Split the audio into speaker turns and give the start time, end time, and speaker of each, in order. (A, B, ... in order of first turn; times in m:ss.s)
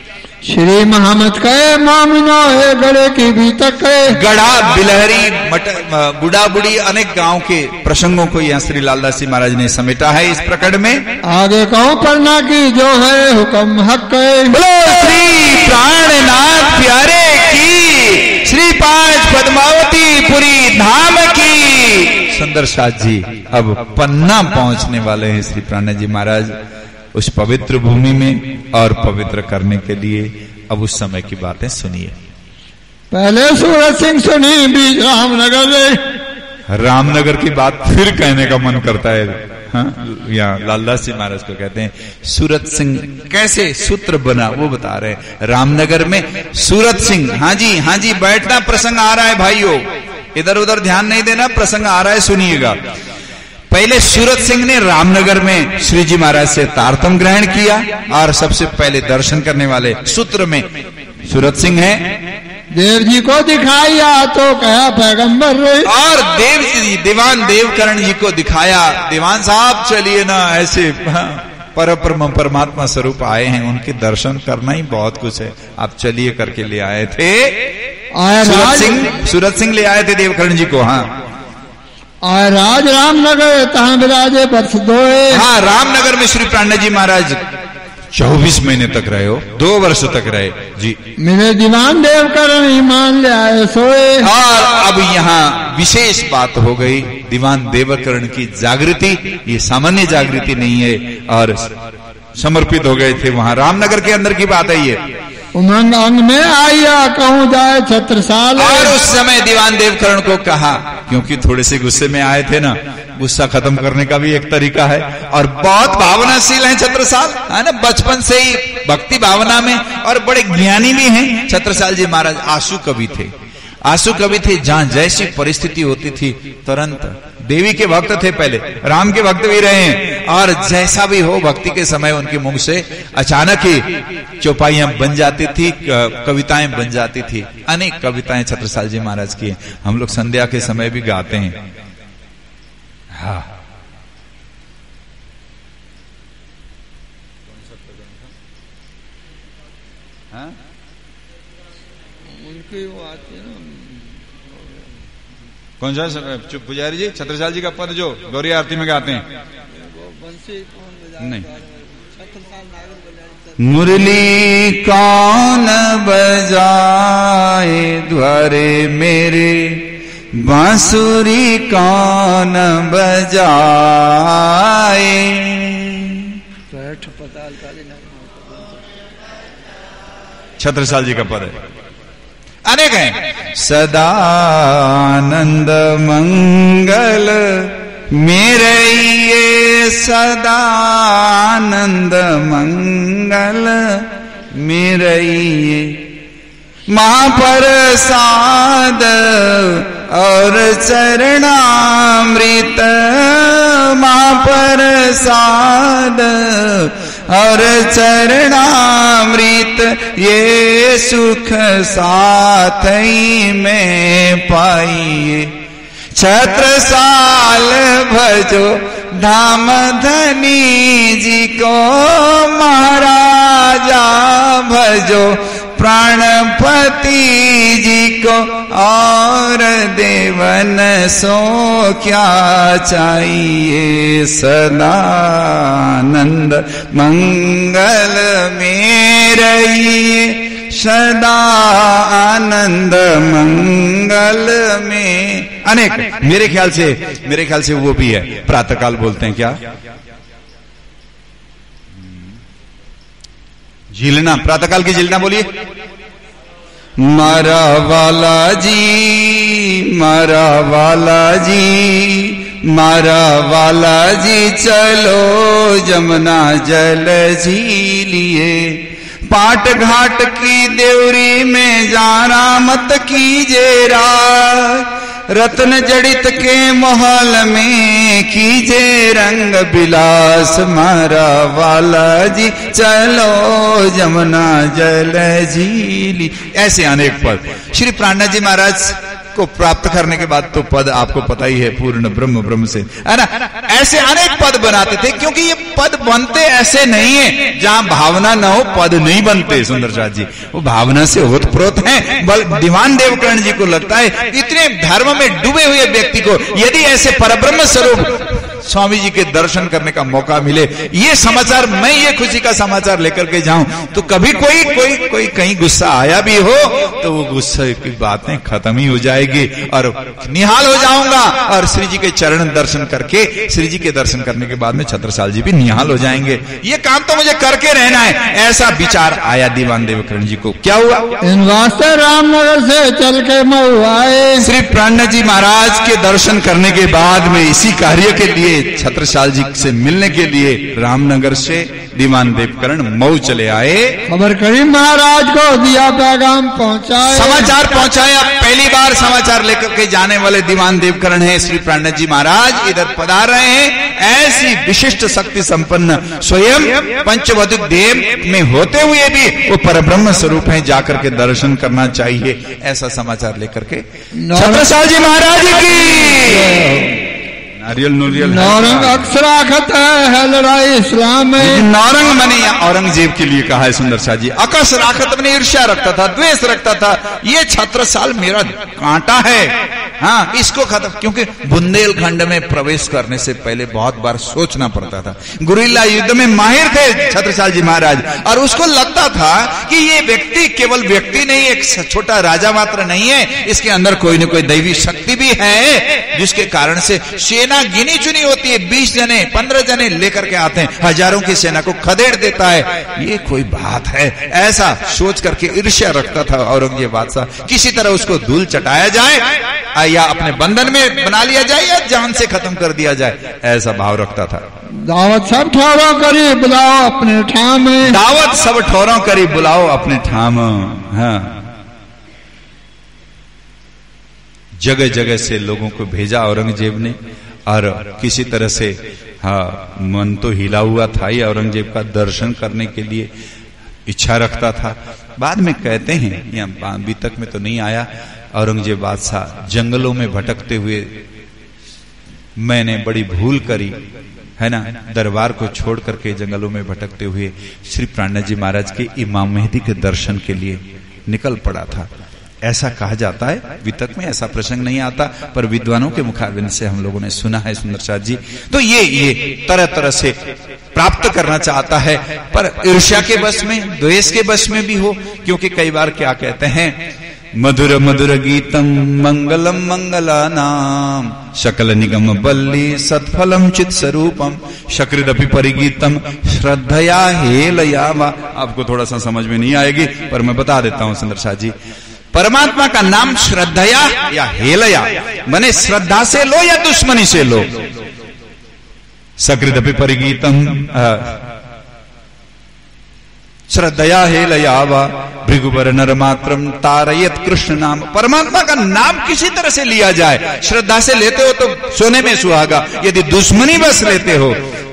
0:00.4-0:04.2 A
0:04.1-0:11.1 B
0:11.2-0:14.6 A
0:14.5-0:26.6 B
0:27.1-0:32.2 B
0:33.1-0:36.2 A
0:36.7-0:52.8 B
0:53.7-1:00.7 B
1:01.2-1:02.2 B
1:02.7-1:05.9 A
1:05.8-1:17.7 B
1:18.1-1:19.1 A
1:18.4-1:21.2 B
1:22.2-1:25.4 A
1:25.3-1:27.5 B
1:28.1-1:31.0 B
1:31.2-1:34.3 A
1:34.2-1:41.7 B
1:42.4-1:45.0 B
1:45.5-1:49.0 A
1:48.6-2:03.3 B
2:03.8-2:21.6 B
2:23.1-2:23.6 B
2:32.2-2:34.4 A
2:35.8-2:39.2 B
2:39.7-2:43.6 A
2:41.2-2:41.4 B
2:43.6-2:56.4 B
2:56.7-2:58.8 A
3:00.6-3:01.6 B
3:02.7-3:16.1 B
3:16.9-3:35.6 B
3:36.1-4:09.6 B
4:13.9-4:15.6 B
4:17.0-5:31.2 B
5:31.2-5:34.5 A
5:34.4-5:44.0 B
5:44.1-5:47.5 A
5:47.1-6:06.9 B
6:04.1-6:04.7 A
6:06.0-6:07.1 A
6:07.6-6:09.0 B
6:08.1-6:11.7 A
6:11.4-6:54.4 B
6:54.7-6:58.0 A
6:57.8-7:01.4 B
7:04.6-7:07.0 B
7:07.5-7:13.1 B
7:13.8-7:21.0 B
7:22.4-7:23.8 B
7:24.4-7:31.9 B
7:32.4-7:40.2 B
7:40.7-8:01.5 B
8:02.1-8:07.6 B
8:09.2-8:11.2 B
8:13.5-8:24.4 B